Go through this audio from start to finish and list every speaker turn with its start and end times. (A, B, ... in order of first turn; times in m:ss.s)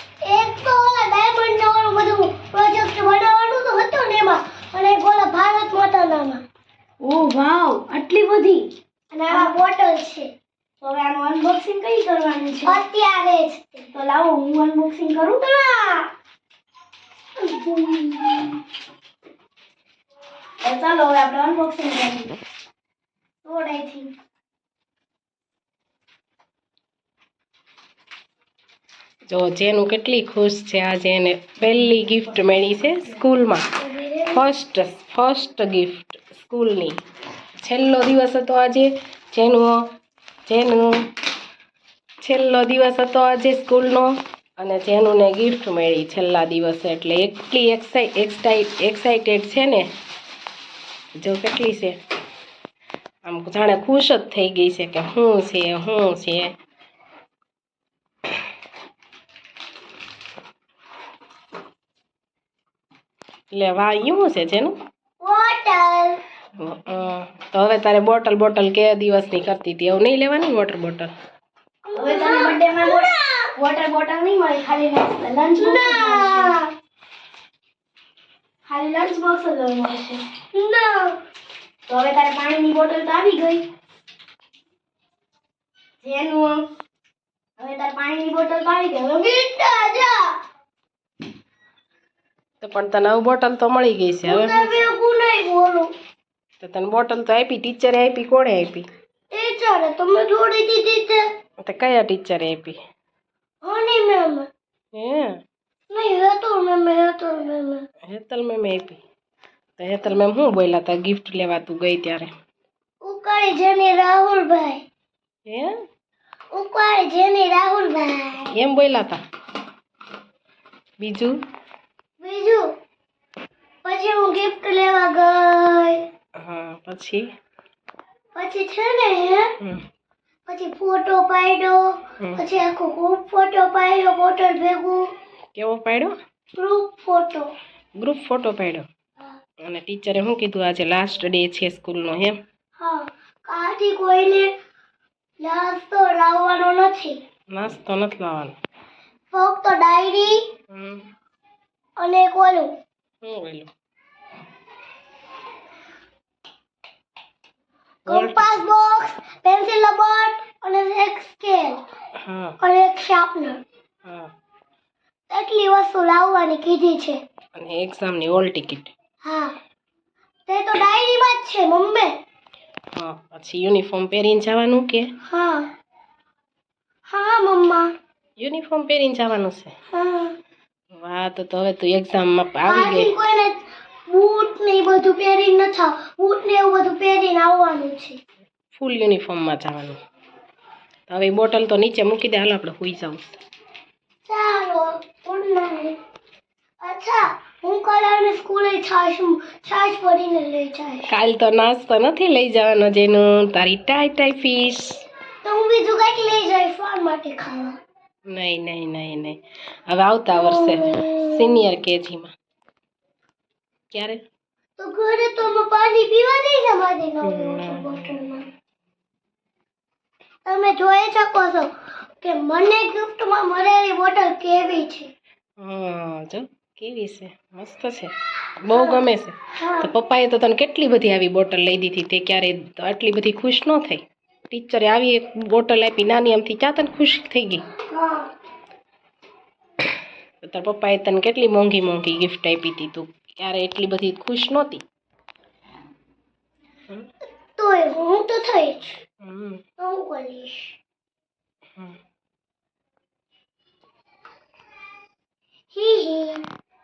0:00.2-0:06.4 A
0:07.0-0:08.7 B
0:09.1-0:10.3 A
0:10.8-0:12.8 B
0:12.6-0:13.9 A
0:13.9-0:16.1 B
0:17.4-0:18.6 B
0:20.6-0:22.4 B
0:23.4-0:24.1 B
0:29.3-0:33.7 C
0:33.8-0:34.4 A
0:34.3-0:37.0 C
0:37.6-0:39.8 C
0:40.5-0:40.9 C
0:42.2-0:49.9 C
0:51.2-0:52.0 C
0:53.2-0:56.6 C
1:03.5-1:04.7 C
1:05.2-1:06.2 A
1:06.6-1:11.1 C
1:11.8-1:13.5 A
1:11.9-1:16.6 B
1:15.6-1:16.7 A
1:18.7-1:20.2 B
1:20.5-1:21.2 A
1:21.9-1:23.7 B
1:26.0-1:26.6 B
1:27.6-1:29.3 B
1:29.2-1:30.4 A
1:32.6-1:34.8 C
1:34.3-1:35.9 A
1:36.6-1:38.9 C
1:39.3-1:41.2 A
1:41.6-1:42.8 C
1:43.6-1:44.5 A
1:45.0-1:45.4 C
1:45.9-1:47.8 A
1:48.1-1:49.0 C
1:49.8-1:52.3 C
1:53.0-1:54.8 A
1:55.5-1:55.7 C
1:56.5-1:58.5 A
1:58.5-1:59.2 C
2:01.0-2:01.4 C
2:02.2-2:02.6 A
2:03.8-2:06.0 A
2:06.4-2:07.2 C
2:08.4-2:09.6 A
2:10.5-2:11.8 A
2:12.4-2:15.1 A
2:15.6-2:16.1 C
2:16.6-2:17.5 A
2:18.0-2:18.8 C
2:19.6-2:22.4 C
2:22.8-2:24.5 A
2:25.4-2:27.2 A
2:27.5-2:28.6 C
2:29.3-2:30.4 A
2:30.7-2:31.0 C
2:32.0-2:32.7 A
2:33.2-2:33.7 C
2:38.1-2:41.8 A
2:38.1-2:38.6 C
2:42.2-2:42.6 C
2:42.6-2:43.6 A
2:44.1-2:44.3 C
2:45.3-2:47.2 A
2:47.6-2:48.9 C
2:49.2-2:49.6 A
2:50.5-2:52.1 A
2:52.9-2:55.1 C
2:55.3-2:55.7 A
2:57.1-2:57.9 A
2:58.4-2:59.7 C
2:59.9-3:00.4 A
3:00.9-3:03.1 C
3:02.6-3:03.6 A
3:04.1-3:08.2 A
3:08.7-3:10.0 C
3:11.1-3:13.4 C
3:14.3-3:16.0 A
3:16.8-3:21.1 A
3:21.1-3:25.0 C
3:25.4-3:27.8 A
3:28.3-3:32.3 C
3:30.4-3:31.4 A
3:33.9-3:34.2 C
3:34.8-3:38.5 A
3:37.2-3:38.1 C
3:40.4-3:45.1 A
3:45.6-3:57.6 C
3:48.7-3:49.9 A
3:57.9-3:58.3 A
4:00.4-4:04.8 C
4:07.6-4:09.0 A
4:09.2-4:09.6 C
4:09.8-4:10.7 A
4:15.7-4:16.4 A